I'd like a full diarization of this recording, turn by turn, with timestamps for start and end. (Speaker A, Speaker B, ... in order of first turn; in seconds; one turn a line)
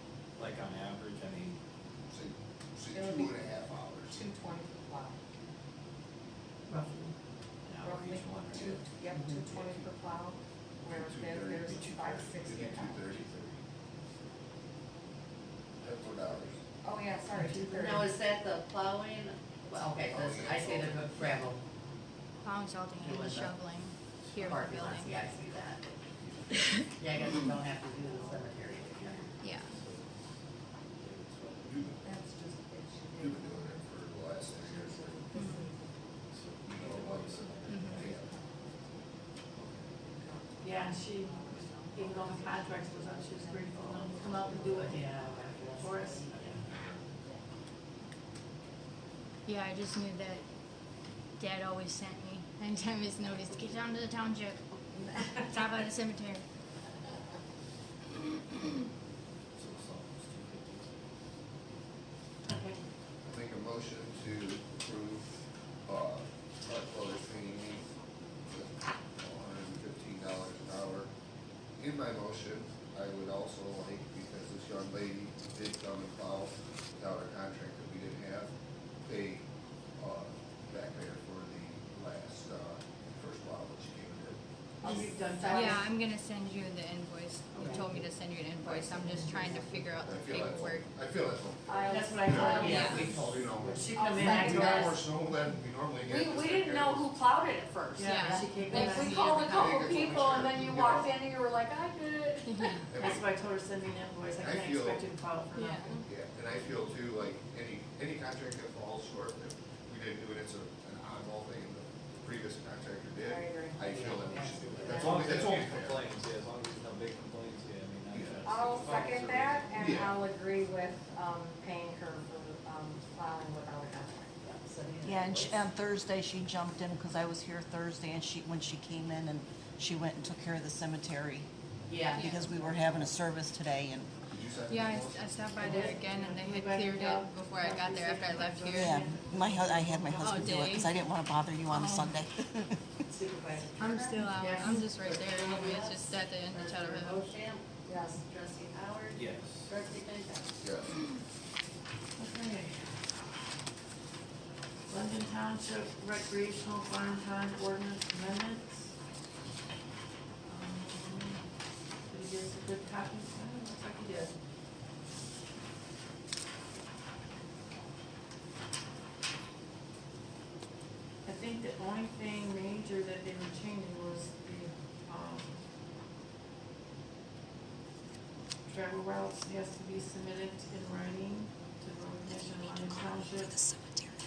Speaker A: 0.3-1.6
Speaker B: 2.1-4.2
Speaker C: 2.9-5.2
Speaker D: 6.7-7.1
Speaker D: 7.7-8.8
Speaker C: 7.8-13.2
Speaker B: 9.3-9.8
Speaker B: 10.9-13.6
Speaker B: 15.8-16.6
Speaker C: 16.8-18.1
Speaker D: 17.3-18.1
Speaker E: 17.8-21.6
Speaker B: 20.1-21.1
Speaker F: 22.4-25.1
Speaker E: 23.0-23.6
Speaker E: 24.3-25.9
Speaker B: 26.2-26.8
Speaker E: 27.0-29.2
Speaker A: 29.2-30.1
Speaker F: 29.4-29.7
Speaker A: 31.0-31.8
Speaker B: 31.6-32.1
Speaker C: 32.0-33.9
Speaker B: 33.2-35.4
Speaker C: 34.5-36.1
Speaker F: 35.3-35.6
Speaker A: 36.3-38.2
Speaker B: 36.6-38.3
Speaker F: 37.7-38.0
Speaker C: 37.9-39.2
Speaker A: 39.5-39.9
Speaker C: 40.0-45.5
Speaker D: 40.6-45.1
Speaker E: 44.8-46.5
Speaker D: 45.8-46.6
Speaker A: 46.3-47.1
Speaker F: 49.5-50.5
Speaker F: 51.4-54.6
Speaker F: 55.1-56.4
Speaker F: 58.2-58.7
Speaker A: 59.5-60.9
Speaker D: 62.5-62.8
Speaker B: 63.2-65.3
Speaker B: 65.8-67.9
Speaker B: 68.4-71.1
Speaker B: 71.8-78.5
Speaker B: 79.0-79.4
Speaker B: 80.0-85.1
Speaker C: 84.8-85.8
Speaker D: 84.8-85.9
Speaker F: 85.5-90.9
Speaker D: 87.5-88.0
Speaker E: 87.6-87.8
Speaker B: 90.0-97.2
Speaker C: 91.7-93.1
Speaker D: 91.9-95.0
Speaker E: 92.5-93.9
Speaker C: 93.9-95.0
Speaker C: 96.0-102.8
Speaker D: 98.0-99.3
Speaker F: 98.0-99.8
Speaker B: 99.4-101.1
Speaker F: 102.5-102.9
Speaker B: 102.9-103.2
Speaker D: 103.0-106.0
Speaker B: 104.4-105.0
Speaker F: 105.5-106.0
Speaker B: 106.0-116.0
Speaker C: 113.2-113.8
Speaker E: 113.8-115.0
Speaker A: 114.6-120.1
Speaker B: 118.1-118.5
Speaker C: 118.4-124.4
Speaker B: 119.8-120.1
Speaker E: 124.4-125.7
Speaker G: 125.0-131.5
Speaker E: 131.8-132.2
Speaker F: 132.2-132.5
Speaker G: 132.2-134.1
Speaker B: 134.3-135.6
Speaker F: 134.7-139.0
Speaker D: 135.6-140.7
Speaker G: 138.8-143.0
Speaker F: 140.1-141.0
Speaker F: 141.7-142.2
Speaker E: 143.1-144.4
Speaker F: 143.8-147.2
Speaker D: 144.3-144.9
Speaker E: 144.9-150.6
Speaker C: 147.8-148.2
Speaker A: 149.1-149.7
Speaker B: 150.6-150.9
Speaker D: 152.2-152.9
Speaker D: 154.9-158.8
Speaker D: 160.4-161.4
Speaker D: 162.1-164.3
Speaker D: 171.2-175.6
Speaker D: 178.7-183.7